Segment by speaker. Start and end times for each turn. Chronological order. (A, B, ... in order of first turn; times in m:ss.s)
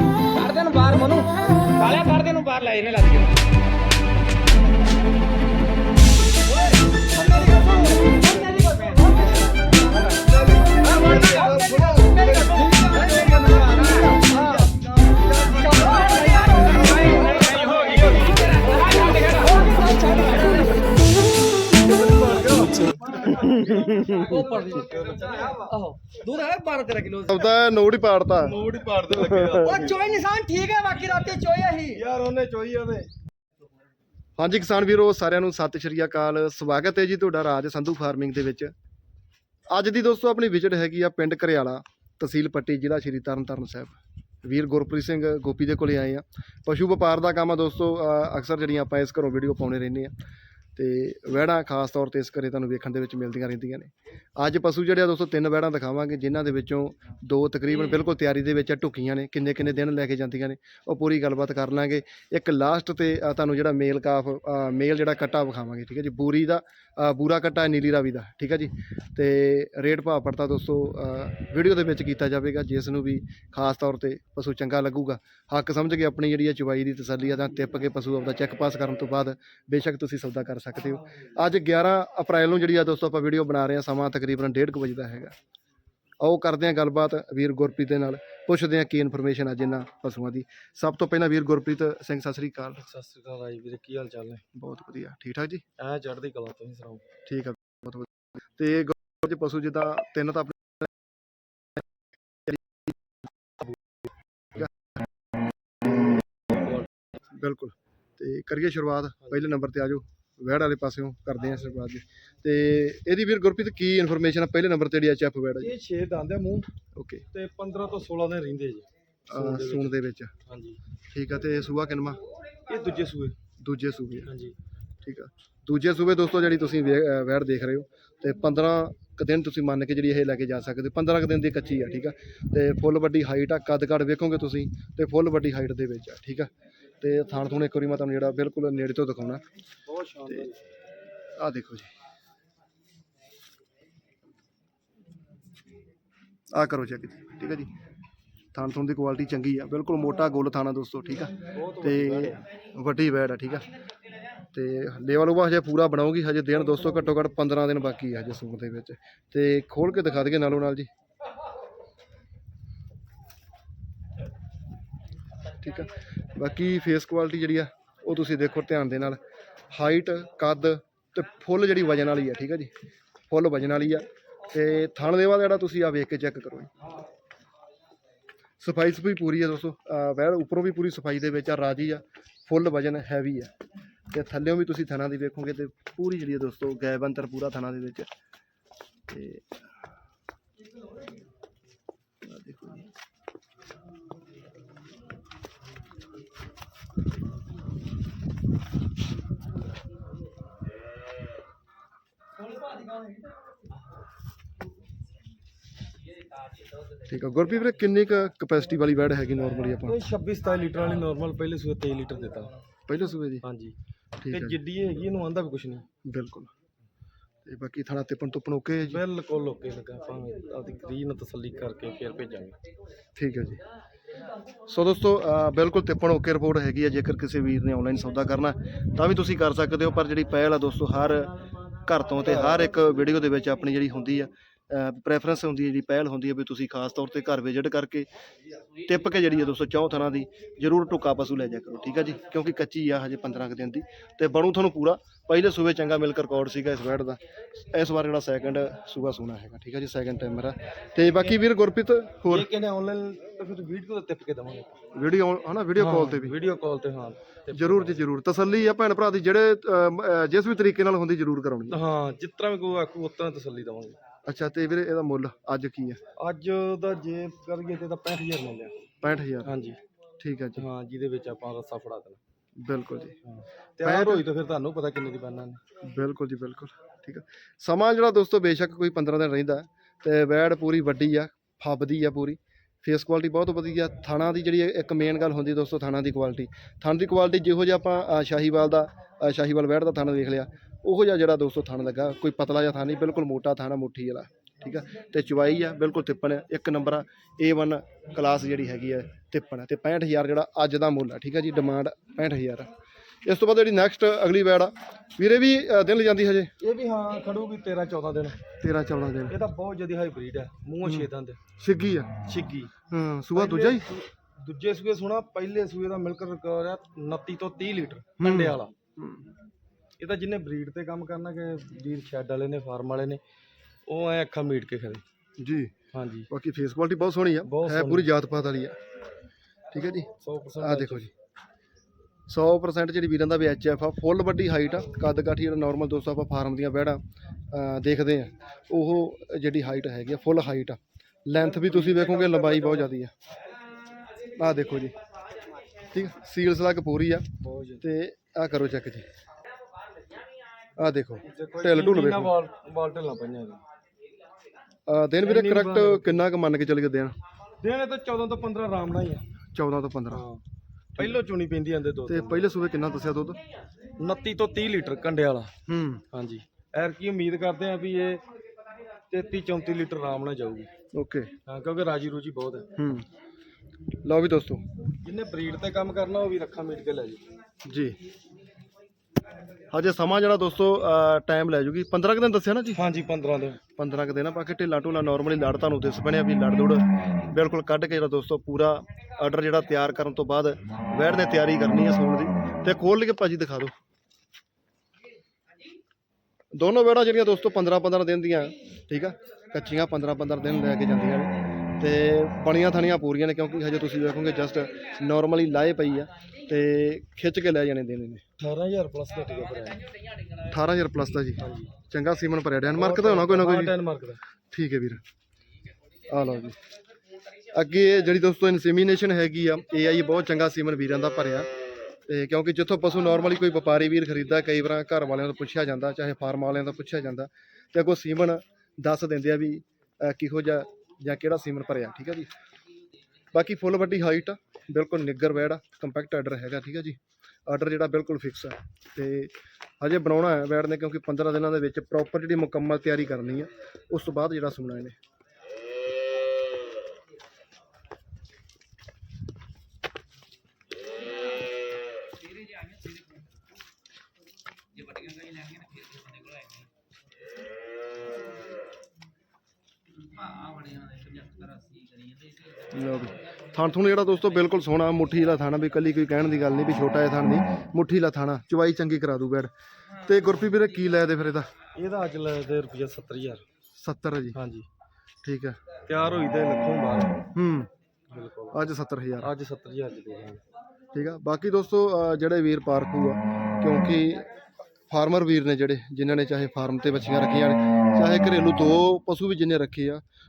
0:00.3-0:03.4 A
0:07.1-0:10.2 A
0:10.3-0:18.5 B
0:10.8-0:14.7 A
0:15.3-0:20.9 A
0:21.8-0:25.8 B
0:23.2-0:27.3 A
0:23.5-0:24.4 C
0:27.2-0:28.6 C
0:28.4-0:30.1 B
0:29.1-0:29.9 C
0:29.7-0:32.0 A
0:31.8-0:33.1 B
0:34.4-0:38.7 C
0:39.7-0:50.1 C
0:50.8-1:25.3 C
1:26.2-1:32.8 C
1:32.8-1:34.4 B
1:34.5-1:35.6 C
1:35.8-1:37.0 B
1:37.2-1:40.9 C
1:42.4-1:42.9 C
1:44.5-1:44.9 C
1:46.5-1:46.9 B
1:47.3-1:55.7 C
1:55.6-1:56.7 B
1:56.9-1:57.2 C
1:57.3-2:00.8 B
1:59.3-2:00.3 C
2:01.1-2:02.2 C
2:02.7-2:03.4 B
2:03.6-2:04.3 C
2:04.2-2:04.5 B
2:05.0-2:19.4 C
2:19.9-2:20.6 B
2:21.4-2:21.9 C
2:26.5-2:27.7 C
2:28.5-2:33.7 C
2:31.5-2:32.4 B
2:34.5-2:40.9 C
2:45.5-2:49.2 C
2:49.7-2:52.7 C
2:53.3-2:56.7 C
2:58.6-3:03.5 C
3:04.1-3:08.1 C
3:09.1-3:09.7 C
3:12.2-3:12.9 C
3:27.0-3:30.0 C
3:29.8-3:32.5 B
3:32.9-3:33.4 C
3:33.4-3:33.7 B
3:34.2-3:34.6 C
3:34.3-3:35.8 B
3:36.0-3:36.5 C
3:37.4-3:39.0 C
3:38.9-3:42.6 B
3:43.2-3:43.6 C
3:44.7-3:58.1 C
3:52.3-3:52.6 B
3:58.8-4:12.5 C
4:12.2-4:14.8 B
4:14.9-4:16.4 C
4:15.8-4:18.0 B
4:17.5-4:21.8 C
4:21.7-4:24.0 B
4:24.2-4:26.0 C
4:26.2-4:28.8 B
4:29.0-4:29.5 C
4:29.4-4:29.8 B
4:30.2-4:30.6 C
4:30.6-4:32.2 B
4:32.6-4:33.2 C
4:33.2-4:35.6 B
4:33.8-4:34.2 C
4:35.8-5:02.7 C
5:03.2-5:06.5 C
5:06.6-5:08.4 B
5:08.6-5:09.3 C
5:09.3-5:11.4 B
5:10.8-5:12.2 C
5:12.2-5:12.7 B
5:12.9-5:13.9 C
5:13.3-5:18.7 B
5:18.2-5:19.3 C
5:20.0-5:23.2 B
5:23.9-5:25.0 B
5:25.4-5:25.7 C
5:25.9-5:26.3 B
5:26.3-5:28.8 C
5:27.4-5:28.1 B
5:29.7-5:31.1 C
5:30.2-5:31.1 B
5:32.3-5:43.1 C
5:41.4-5:42.9 B
5:44.4-5:44.9 C
5:45.9-5:47.3 C
5:47.4-5:47.8 B
5:47.8-5:49.0 C
5:50.8-5:52.3 C
5:51.2-5:53.6 B
5:54.9-5:57.1 C
5:55.2-5:56.2 B
5:57.6-5:59.3 B
5:59.5-6:00.2 C
6:00.1-6:00.4 B
6:01.0-6:02.5 B
6:02.0-6:03.4 C
6:04.0-6:05.5 B
6:05.7-6:06.0 C
6:06.1-6:08.2 B
6:09.1-6:10.7 B
6:10.9-6:11.3 C
6:11.4-6:12.7 B
6:12.8-6:13.0 C
6:14.0-6:14.6 C
6:15.0-6:17.2 B
6:17.6-6:18.0 C
6:19.7-6:22.8 C
6:22.7-6:23.6 B
6:23.8-6:33.7 C
6:36.5-6:48.2 C
6:48.4-6:49.8 B
6:50.5-6:53.7 C
6:51.4-6:51.7 B
6:52.7-6:54.2 B
6:54.5-6:55.0 C
6:56.1-6:56.6 C
6:57.5-7:01.5 C
7:02.1-7:12.3 C
7:13.3-7:24.9 C
7:34.9-7:36.4 A
7:40.2-7:42.3 A
7:42.7-7:51.5 C
7:51.7-7:53.4 B
7:53.8-7:54.4 C
7:54.3-7:54.7 B
7:55.2-7:55.6 C
7:55.8-7:57.3 B
7:57.3-7:57.7 C
7:58.1-7:58.6 B
7:58.5-7:59.3 C
7:59.2-8:00.4 B
8:00.9-8:04.3 C
8:04.9-8:10.0 C